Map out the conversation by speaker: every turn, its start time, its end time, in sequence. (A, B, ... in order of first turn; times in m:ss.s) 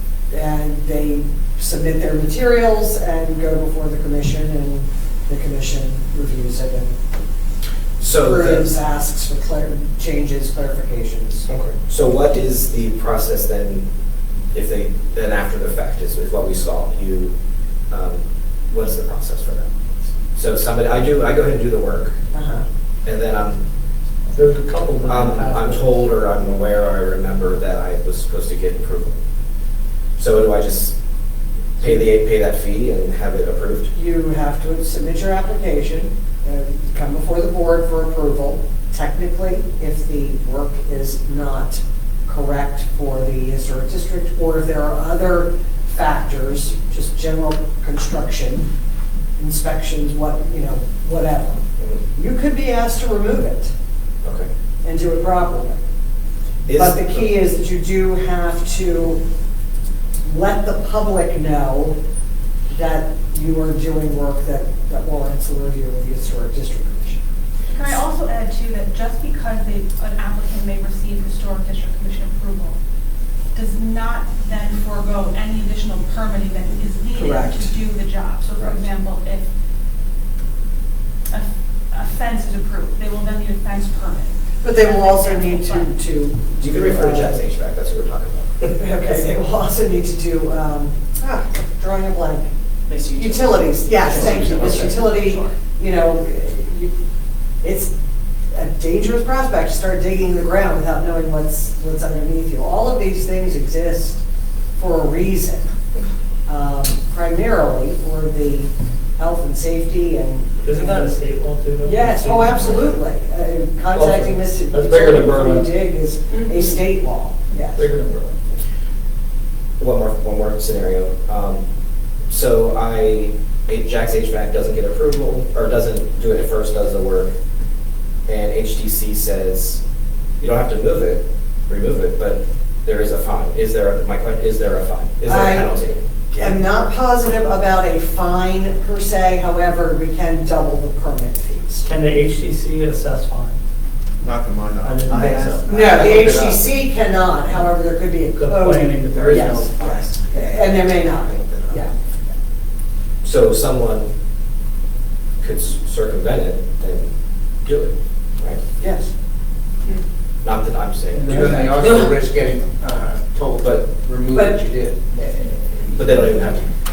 0:00.3-0:07.0 A
0:08.0-0:08.7 B
0:08.1-0:11.5 A
0:11.5-0:13.9 B
0:14.5-0:17.3 B
0:17.9-0:19.7 B
0:20.3-0:22.2 B
0:22.3-0:22.6 A
0:23.0-0:23.6 B
0:24.3-0:26.0 C
0:25.0-0:29.2 B
0:30.2-0:31.0 B
0:31.8-0:33.9 B
0:33.9-0:48.7 A
0:49.4-0:51.6 A
0:52.1-0:53.7 A
0:54.2-0:54.5 B
0:54.8-0:55.8 A
0:56.7-0:57.3 B
0:56.7-0:59.2 A
1:00.2-1:02.0 A
1:02.7-1:07.2 A
1:07.7-1:12.8 D
1:13.5-1:19.5 D
1:17.1-1:17.7 A
1:21.3-1:25.9 D
1:24.6-1:27.4 A
1:26.6-1:29.3 B
1:28.8-1:32.5 A
1:32.9-1:35.5 E
1:33.1-1:36.9 A
1:34.4-1:34.9 B
1:37.6-1:37.9 A
1:38.5-1:44.2 A
1:44.8-1:45.7 A
1:46.5-1:51.1 A
1:50.6-1:52.9 C
1:51.8-1:57.9 A
1:53.9-1:55.7 C
1:57.7-1:58.4 C
1:59.8-2:01.6 B
2:02.3-2:07.3 B
2:08.3-2:09.8 B
2:10.4-2:16.0 B
2:15.3-2:15.7 A
2:16.3-2:21.9 A
2:21.8-2:23.6 C
2:24.2-2:26.7 F
2:24.8-2:25.6 C
2:25.6-2:31.9 A
2:28.4-2:29.8 C
2:29.1-2:30.6 F
2:31.3-2:31.6 F
2:33.2-2:34.1 B
2:35.4-2:37.1 B
2:37.6-2:38.6 B
2:38.8-2:39.1 A
2:40.4-2:41.9 B
2:41.1-2:42.2 C
2:41.2-2:45.0 F
2:43.6-2:43.9 B
2:44.3-2:44.6 A
2:45.2-2:45.5 A
2:45.9-2:46.7 B